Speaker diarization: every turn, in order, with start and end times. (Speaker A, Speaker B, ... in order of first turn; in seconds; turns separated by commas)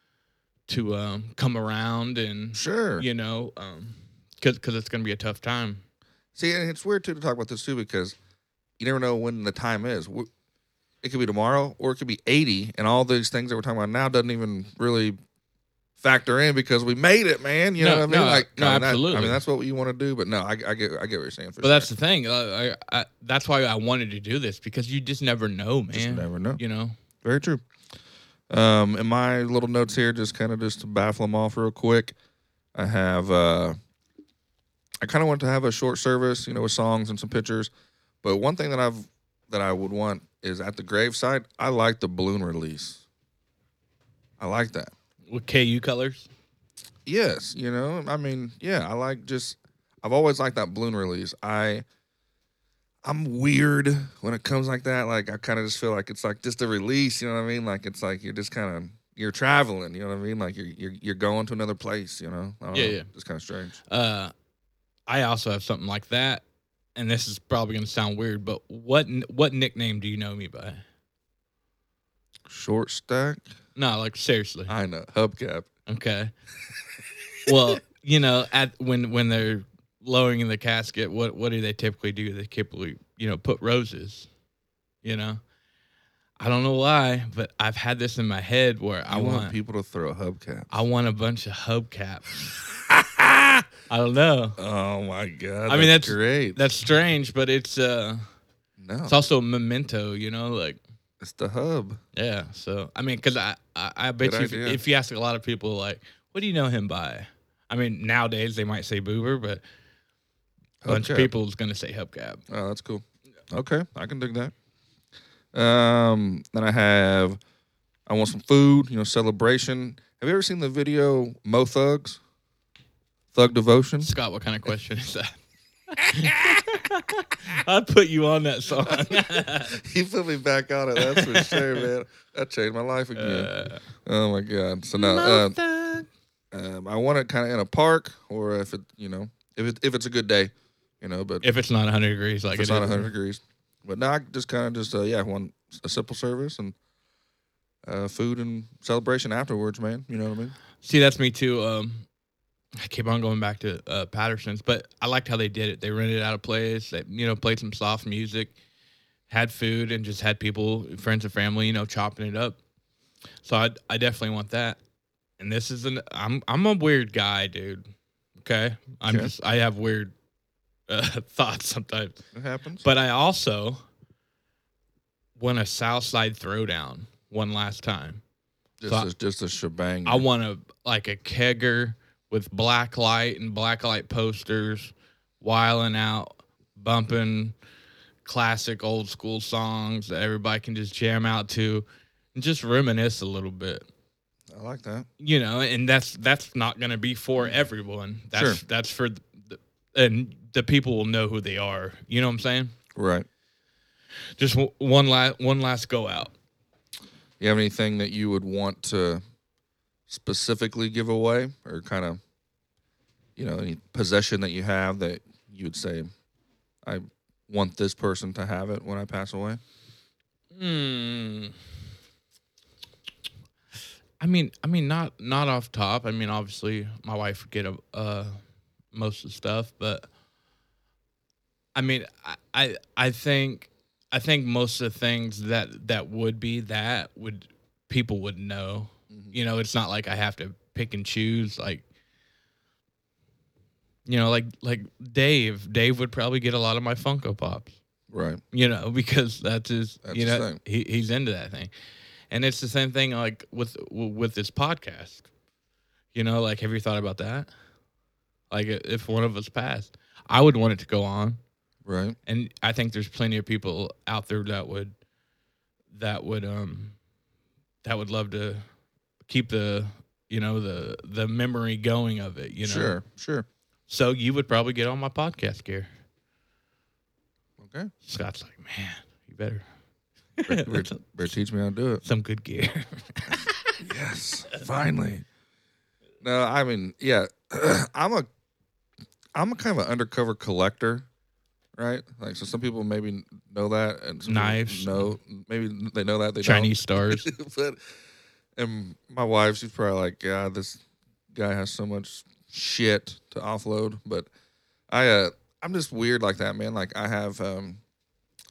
Speaker A: 0.7-5.8, Speaker B: 2.5-3.0, Speaker B: 6.3-8.2, Speaker B: 8.8-10.3, Speaker B: 11.0-15.2, Speaker B: 16.0-21.9, Speaker A: 17.8-19.4, Speaker A: 21.6-27.0, Speaker B: 25.9-26.6, Speaker B: 27.2-27.6, Speaker B: 28.5-32.1, Speaker B: 32.7-33.8, Speaker B: 35.0-37.7, Speaker B: 38.2-43.0, Speaker B: 44.4-44.9, Speaker A: 45.3-46.3, Speaker B: 47.0-51.8, Speaker B: 53.0-63.8, Speaker A: 62.7-63.1, Speaker A: 63.9-64.3, Speaker A: 65.1-66.4, Speaker A: 67.0-70.8, Speaker B: 72.5-73.4, Speaker A: 73.8-74.7, Speaker B: 74.7-75.7, Speaker A: 75.9-76.3, Speaker A: 77.5-84.3, Speaker A: 85.0-85.4, Speaker A: 86.4-89.5, Speaker B: 89.1-90.7, Speaker A: 90.7-92.5, Speaker A: 93.9-94.6, Speaker B: 94.6-96.6, Speaker A: 95.7-98.2, Speaker B: 98.8-99.1, Speaker A: 99.0-100.8, Speaker B: 101.2-102.0, Speaker A: 102.1-109.6, Speaker B: 104.2-104.8, Speaker B: 110.8-111.3, Speaker A: 110.9-112.4, Speaker B: 112.5-114.5, Speaker B: 115.5-117.4, Speaker B: 118.1-122.2, Speaker B: 123.3-124.1, Speaker A: 124.0-125.4, Speaker A: 125.9-129.8, Speaker B: 128.9-133.5, Speaker A: 130.9-131.9, Speaker A: 133.1-133.8, Speaker B: 134.0-135.6, Speaker A: 134.9-136.1, Speaker B: 136.5-141.4, Speaker A: 141.4-143.1, Speaker B: 142.5-146.8, Speaker B: 147.8-150.6, Speaker A: 150.8-152.1, Speaker A: 152.8-158.5, Speaker A: 159.3-162.6, Speaker A: 163.4-164.8, Speaker A: 165.4-167.9, Speaker A: 168.4-170.1, Speaker B: 169.1-169.3, Speaker A: 170.9-172.2, Speaker B: 172.3-172.8, Speaker A: 172.8-173.8, Speaker A: 175.4-178.2, Speaker B: 178.8-180.2, Speaker A: 180.0-187.5, Speaker A: 188.2-193.8, Speaker B: 194.5-195.1, Speaker A: 195.2-202.7, Speaker B: 198.3-198.6, Speaker B: 202.9-203.3, Speaker A: 204.4-206.3, Speaker B: 207.4-209.2, Speaker B: 210.1-212.2, Speaker B: 213.4-216.1, Speaker B: 216.8-219.6, Speaker A: 220.5-221.6, Speaker A: 224.2-228.4, Speaker A: 228.9-230.1, Speaker A: 231.7-241.8, Speaker A: 244.1-247.7, Speaker B: 248.1-248.4, Speaker A: 248.5-251.7, Speaker B: 250.0-250.6, Speaker A: 252.3-255.3, Speaker A: 256.1-257.5, Speaker A: 258.5-261.4, Speaker B: 261.8-262.2, Speaker A: 262.2-264.9, Speaker A: 265.9-266.9, Speaker A: 267.8-268.6, Speaker A: 269.3-273.0, Speaker B: 272.6-273.5, Speaker A: 273.9-275.9, Speaker B: 277.6-277.9, Speaker A: 278.0-279.6, Speaker A: 280.4-281.0, Speaker B: 280.5-282.0, Speaker A: 282.0-283.8, Speaker B: 283.8-285.2, Speaker B: 286.2-288.3, Speaker B: 289.3-291.1, Speaker B: 291.8-297.8, Speaker A: 294.3-295.1, Speaker A: 296.4-297.3, Speaker B: 298.6-300.8, Speaker B: 301.3-304.3, Speaker B: 304.9-307.8